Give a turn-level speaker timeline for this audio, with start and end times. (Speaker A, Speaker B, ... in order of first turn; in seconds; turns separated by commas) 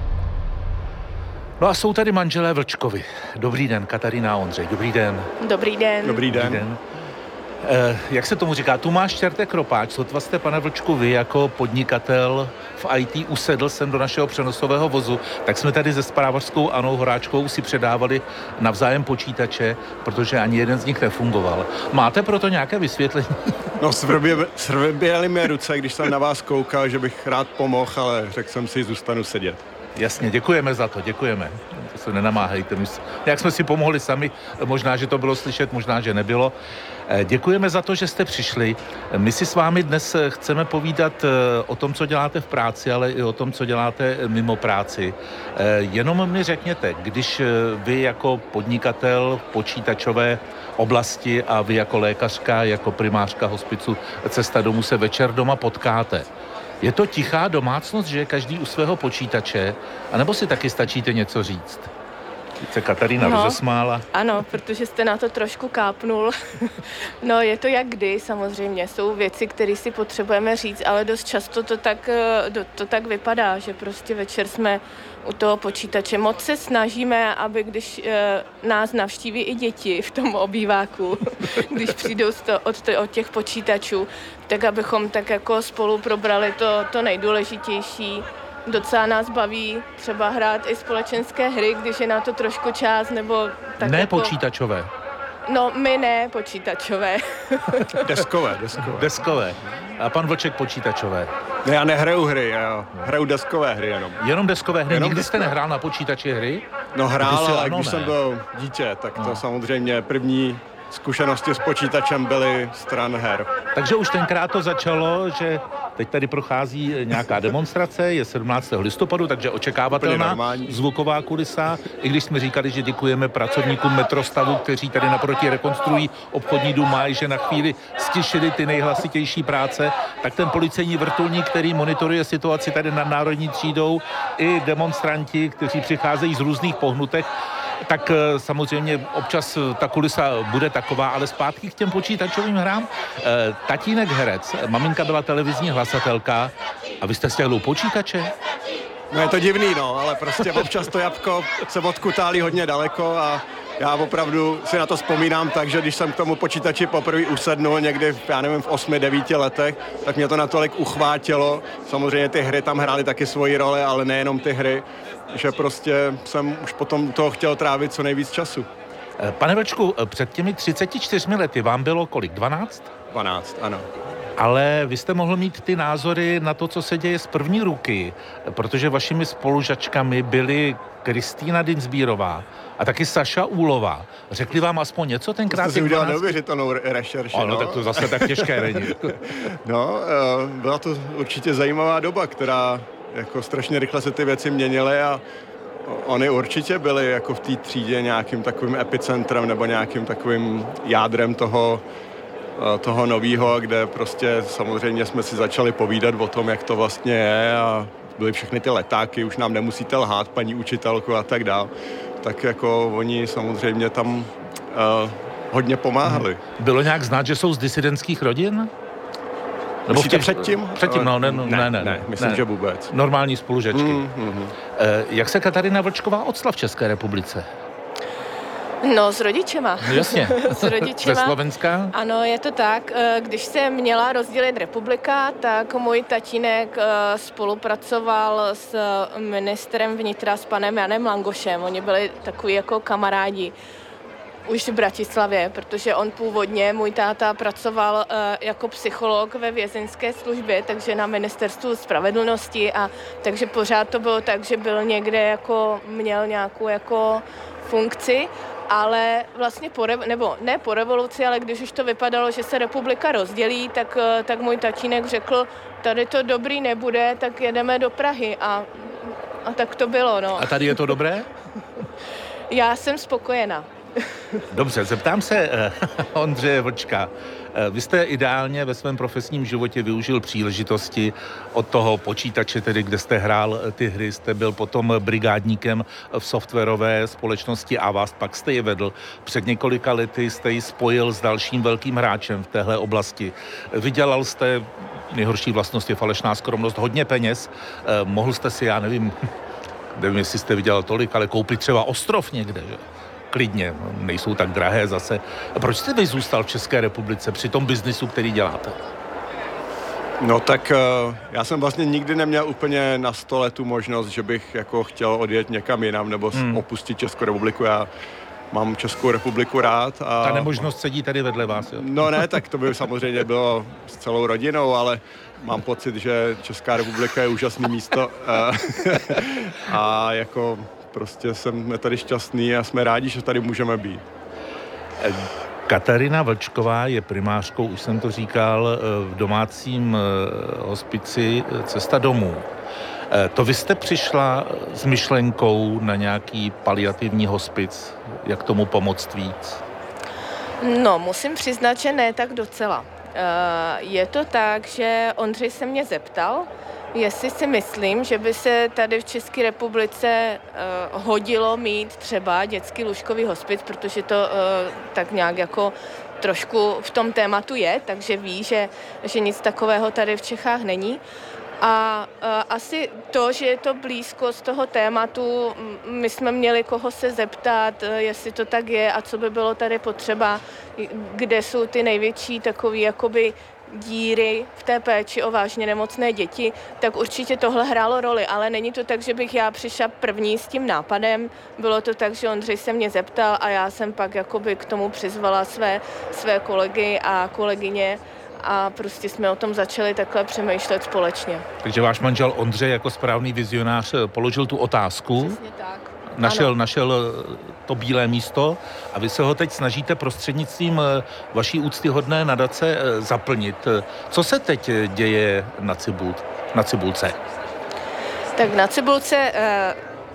Speaker A: 1.6-5.3, Speaker B: 5.4-6.2, Speaker C: 6.0-6.7, Speaker A: 6.3-6.8, Speaker A: 7.6-23.8, Speaker C: 23.8-29.6, Speaker A: 30.0-36.5, Speaker A: 37.1-56.3, Speaker A: 56.8-61.9, Speaker A: 62.6-64.1, Speaker B: 63.2-63.6, Speaker B: 64.1-94.3, Speaker A: 93.8-94.9, Speaker B: 95.5-98.0, Speaker C: 98.0-99.1, Speaker A: 98.8-101.3, Speaker C: 101.7-104.2, Speaker A: 104.2-106.6, Speaker C: 104.9-105.5, Speaker C: 107.0-113.5, Speaker A: 107.2-108.2, Speaker A: 113.8-137.3, Speaker C: 119.9-120.8, Speaker A: 137.8-148.3, Speaker C: 149.1-168.7, Speaker A: 169.2-172.9, Speaker C: 173.1-173.9, Speaker A: 174.4-186.3, Speaker C: 185.5-195.2, Speaker A: 187.3-189.3, Speaker C: 195.8-201.8, Speaker C: 202.6-211.7, Speaker C: 212.2-216.4, Speaker A: 216.1-218.7, Speaker A: 219.9-224.1, Speaker C: 219.9-222.9, Speaker C: 223.7-224.6, Speaker A: 224.8-227.5, Speaker B: 228.8-231.4, Speaker A: 229.8-231.9, Speaker B: 231.9-243.5, Speaker B: 244.5-270.8, Speaker A: 270.4-271.3, Speaker B: 272.5-273.7, Speaker A: 274.5-299.2, Speaker A: 299.9-308.8, Speaker C: 310.2-317.9, Speaker A: 316.3-316.6, Speaker C: 318.5-320.7, Speaker A: 320.2-322.3, Speaker C: 321.7-334.0, Speaker A: 335.0-342.5, Speaker A: 343.1-349.6, Speaker B: 350.6-371.0, Speaker B: 371.6-401.4, Speaker A: 401.6-405.4, Speaker B: 405.2-406.5, Speaker A: 406.2-417.2, Speaker B: 418.4-419.8